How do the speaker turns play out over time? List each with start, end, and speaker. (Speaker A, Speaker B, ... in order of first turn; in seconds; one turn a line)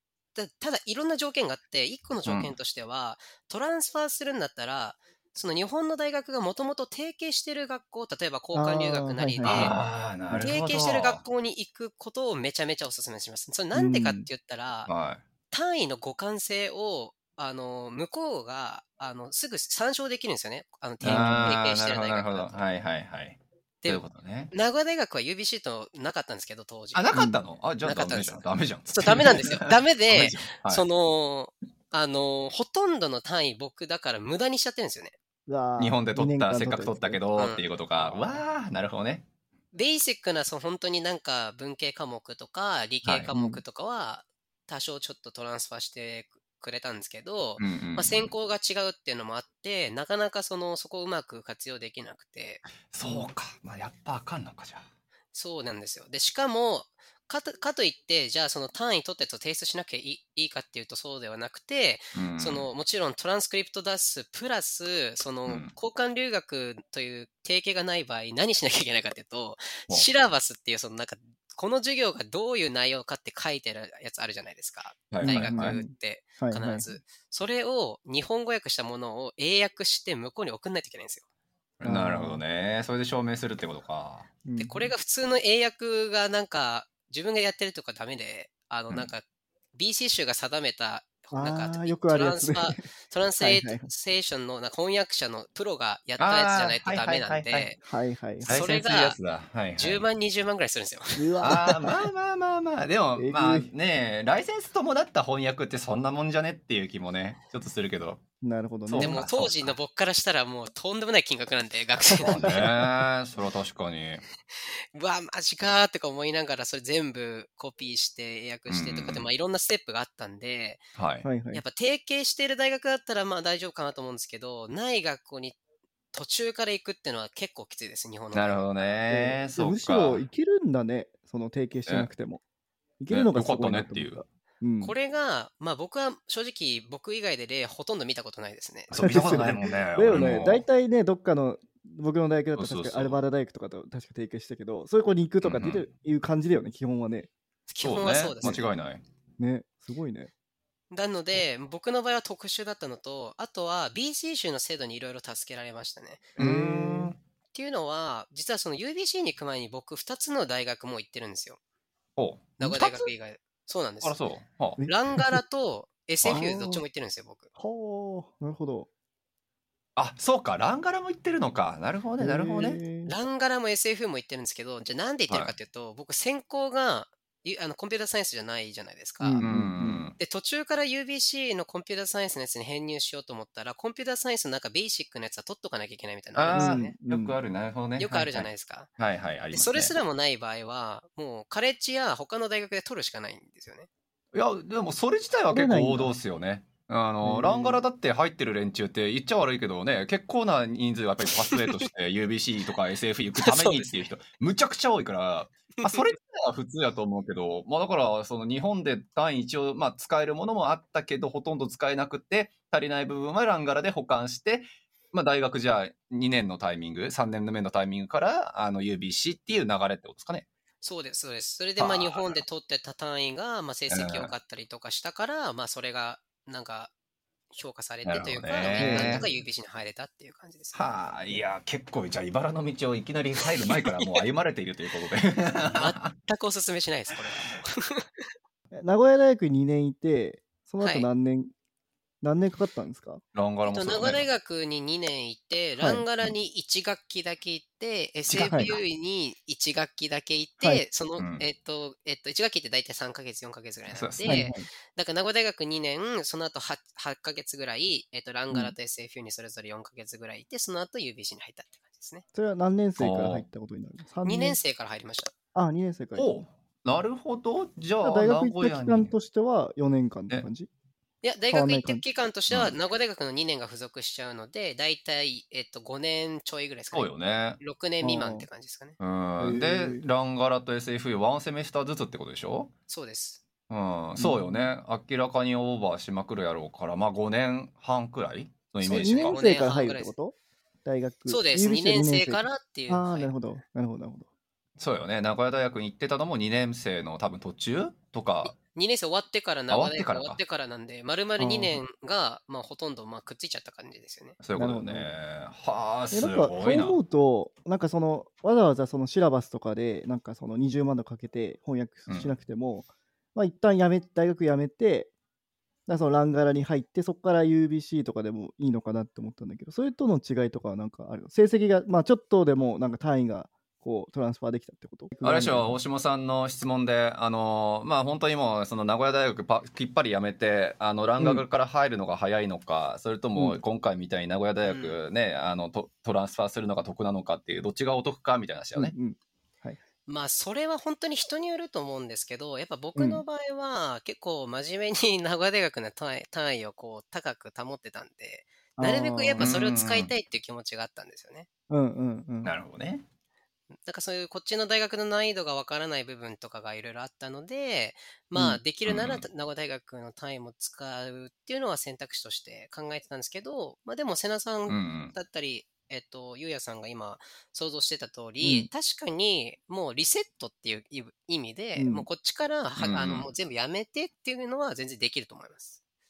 Speaker A: 0.3-9.8
Speaker B: 2.2-2.5
Speaker C: 8.5-9.8
Speaker B: 9.4-11.2
Speaker A: 10.4-14.9
Speaker C: 13.7-14.3
Speaker B: 14.9-15.2
Speaker A: 15.5-22.6
Speaker B: 21.0-24.5
Speaker C: 21.0-21.5
Speaker A: 23.8-27.1
Speaker B: 26.9-30.9
Speaker C: 27.1-27.4
Speaker A: 27.8-35.1
Speaker C: 35.5-37.2
Speaker B: 35.8-39.2
Speaker A: 37.4-37.6
Speaker A: 39.7-52.6
Speaker B: 43.0-43.3
Speaker C: 43.3-43.6
Speaker B: 47.6-48.3
Speaker B: 52.9-54.9
Speaker A: 55.3-81.2
Speaker B: 62.1-62.7
Speaker B: 65.5-65.7
Speaker B: 75.1-75.8
Speaker C: 75.2-76.9
Speaker B: 81.8-84.4
Speaker C: 81.8-82.4
Speaker C: 84.4-84.9
Speaker A: 84.6-97.8
Speaker C: 91.3-92.8
Speaker C: 93.4-93.9
Speaker B: 96.2-97.7
Speaker C: 97.8-98.6
Speaker A: 98.4-99.2
Speaker B: 98.4-100.0
Speaker A: 99.8-101.5
Speaker C: 101.2-101.9
Speaker B: 101.4-108.2
Speaker C: 103.2-103.7
Speaker C: 108.4-109.2
Speaker B: 108.9-109.8
Speaker A: 109.0-112.6
Speaker B: 112.2-114.2
Speaker C: 112.4-112.8
Speaker A: 114.6-120.8
Speaker B: 118.7-119.3
Speaker B: 120.9-121.3
Speaker C: 121.2-121.6
Speaker A: 121.5-125.6
Speaker A: 126.1-128.9
Speaker B: 128.3-130.2
Speaker C: 129.1-132.4
Speaker C: 133.0-134.9
Speaker B: 133.1-134.2
Speaker A: 134.8-138.9
Speaker B: 138.9-140.6
Speaker C: 139.0-147.3
Speaker B: 142.6-143.2
Speaker B: 145.4-145.9
Speaker A: 147.7-148.7
Speaker B: 147.8-149.0
Speaker C: 149.4-150.3
Speaker A: 150.9-156.3
Speaker B: 156.4-157.2
Speaker C: 156.4-157.1
Speaker A: 157.5-161.6
Speaker B: 162.2-163.1
Speaker A: 162.6-164.2
Speaker B: 164.0-164.8
Speaker C: 164.8-165.4
Speaker A: 164.8-167.5
Speaker C: 166.3-166.8
Speaker C: 167.6-168.9
Speaker B: 169.9-172.8
Speaker C: 172.2-173.1
Speaker A: 173.1-179.4
Speaker C: 179.2-180.0
Speaker B: 179.4-180.2
Speaker A: 180.2-186.9
Speaker B: 186.3-189.9
Speaker C: 186.5-187.3
Speaker A: 188.0-188.9
Speaker A: 189.5-193.9
Speaker B: 194.3-220.5
Speaker C: 195.5-196.1
Speaker C: 197.2-197.8
Speaker A: 201.4-201.9
Speaker A: 203.4-204.0
Speaker A: 205.8-206.1
Speaker A: 220.8-226.9
Speaker B: 221.8-222.4
Speaker B: 223.9-224.3
Speaker A: 227.5-230.8
Speaker B: 228.0-229.2
Speaker C: 228.7-229.3
Speaker B: 230.7-236.1
Speaker A: 233.8-234.2
Speaker A: 235.7-238.2
Speaker C: 238.7-241.5
Speaker A: 240.8-241.1
Speaker C: 242.2-243.2
Speaker B: 243.3-244.2
Speaker A: 243.6-262.2
Speaker C: 245.8-246.0
Speaker B: 248.3-248.8
Speaker C: 248.5-248.7
Speaker B: 251.2-251.4
Speaker B: 253.9-254.5
Speaker C: 254.2-254.7
Speaker C: 262.3-264.6
Speaker B: 263.0-263.4
Speaker A: 264.2-265.3
Speaker C: 265.5-266.4
Speaker B: 266.1-269.1
Speaker C: 268.0-270.7
Speaker A: 271.2-278.9
Speaker C: 271.5-272.0
Speaker B: 272.5-272.8
Speaker B: 276.9-277.6
Speaker C: 278.0-278.5
Speaker B: 279.0-282.7
Speaker C: 279.4-280.0
Speaker A: 282.9-283.4
Speaker B: 283.7-289.4
Speaker C: 284.1-284.7
Speaker C: 288.8-294.3
Speaker A: 288.9-290.1
Speaker A: 291.3-293.3
Speaker B: 294.8-298.5
Speaker A: 298.4-304.4
Speaker B: 299.7-300.4
Speaker C: 301.4-301.8
Speaker B: 304.4-307.0
Speaker C: 304.6-305.1
Speaker C: 306.1-315.1
Speaker B: 312.1-312.3
Speaker C: 315.9-325.8
Speaker B: 325.2-338.9
Speaker C: 331.2-331.4
Speaker A: 334.6-335.0
Speaker C: 338.8-339.8
Speaker A: 340.1-351.5
Speaker C: 342.9-343.2
Speaker C: 348.8-349.5
Speaker B: 349.4-350.1
Speaker C: 351.7-352.5
Speaker B: 352.4-353.0
Speaker A: 353.9-375.8
Speaker C: 358.3-358.6
Speaker B: 358.9-359.2
Speaker B: 364.7-365.1
Speaker C: 368.4-368.7
Speaker C: 371.8-372.1
Speaker B: 372.8-373.3